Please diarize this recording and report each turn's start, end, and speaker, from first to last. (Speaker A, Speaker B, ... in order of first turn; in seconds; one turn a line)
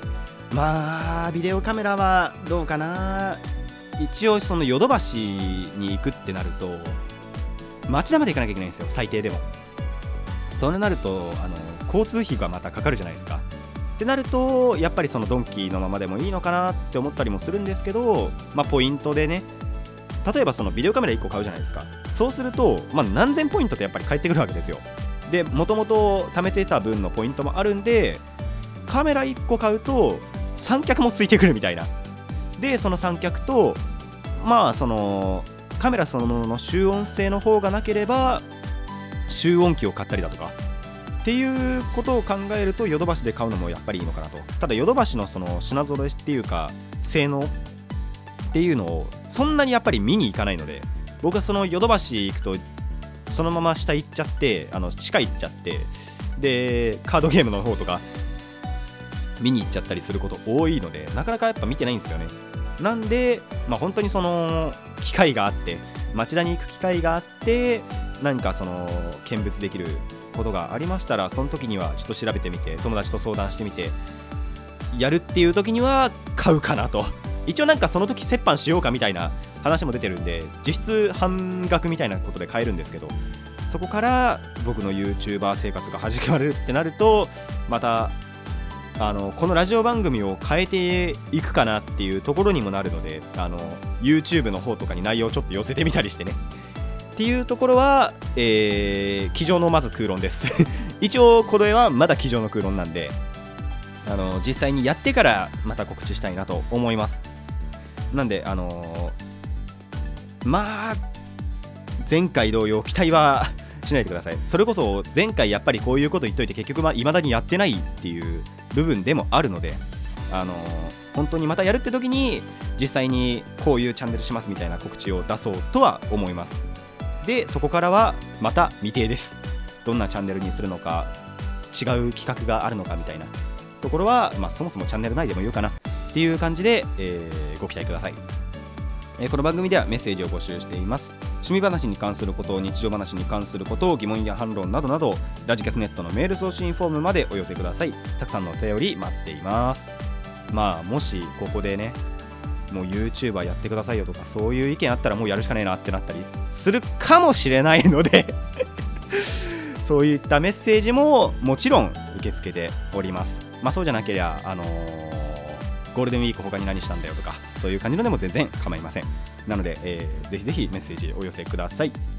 Speaker A: 0.5-3.4
Speaker A: 4.0-7.0
Speaker A: 7.9-9.4
Speaker A: 10.5-19.5
Speaker A: 20.2-28.2
Speaker A: 28.9-31.9
Speaker A: 32.6-33.8
Speaker A: 34.4-38.4
Speaker A: 39.3-40.5
Speaker A: 41.2-47.5
Speaker A: 48.5-52.6
Speaker A: 53.2-58.0
Speaker A: 59.4-74.0
Speaker A: 74.9-88.2
Speaker A: 89.0-96.4
Speaker A: 97.2-103.2
Speaker A: 104.0-107.2
Speaker A: 108.1-109.2
Speaker A: 110.4-111.0
Speaker A: 112.0-126.6
Speaker A: 127.2-131.1
Speaker A: 131.7-138.2
Speaker A: 139.2-149.9
Speaker A: 150.5-152.0
Speaker A: 152.7-158.3
Speaker A: 159.1-172.0